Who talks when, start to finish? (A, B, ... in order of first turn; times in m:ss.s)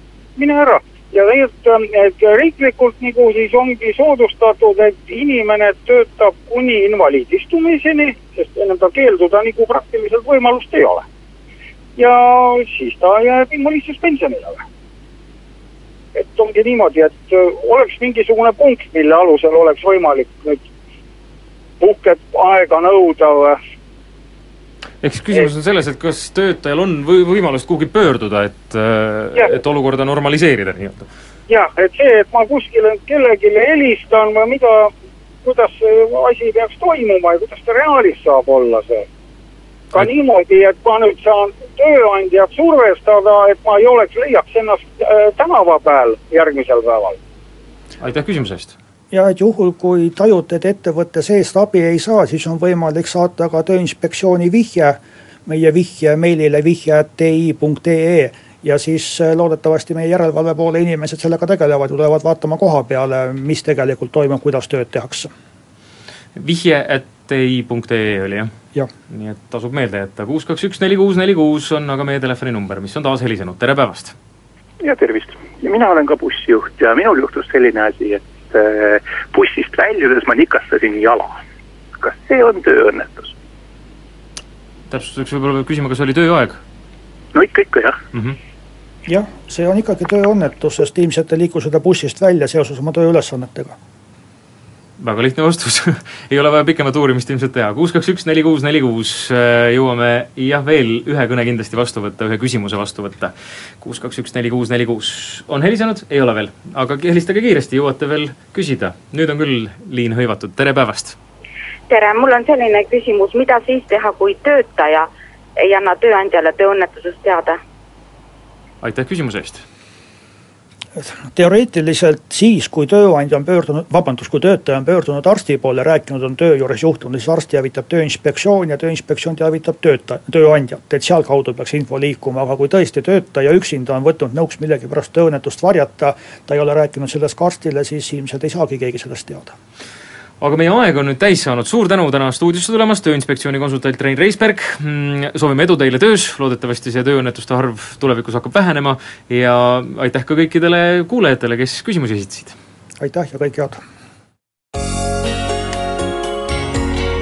0:00.4-0:11.0 A
0:12.0-0:14.6 A
0:16.1-0:20.6 A
0:21.8-0:23.6 A
0:25.0-0:31.1 B
0:31.5-0:34.9 A
0:35.4-0:39.1 A
0:39.9-0:47.2 A
0:48.0-0:48.7 B
0:49.1-1:05.3 C
1:06.4-1:08.5 B
1:09.1-1:14.2 B
1:14.8-1:21.3 D
1:22.0-1:23.3 D
1:24.9-1:26.6 B
1:27.3-1:28.0 D
1:29.1-1:33.8 C
1:35.0-1:51.2 B
1:51.9-1:57.6 E
1:58.8-1:59.6 B
2:01.0-2:19.5 C
2:20.4-2:32.6 B
2:33.0-2:33.8 C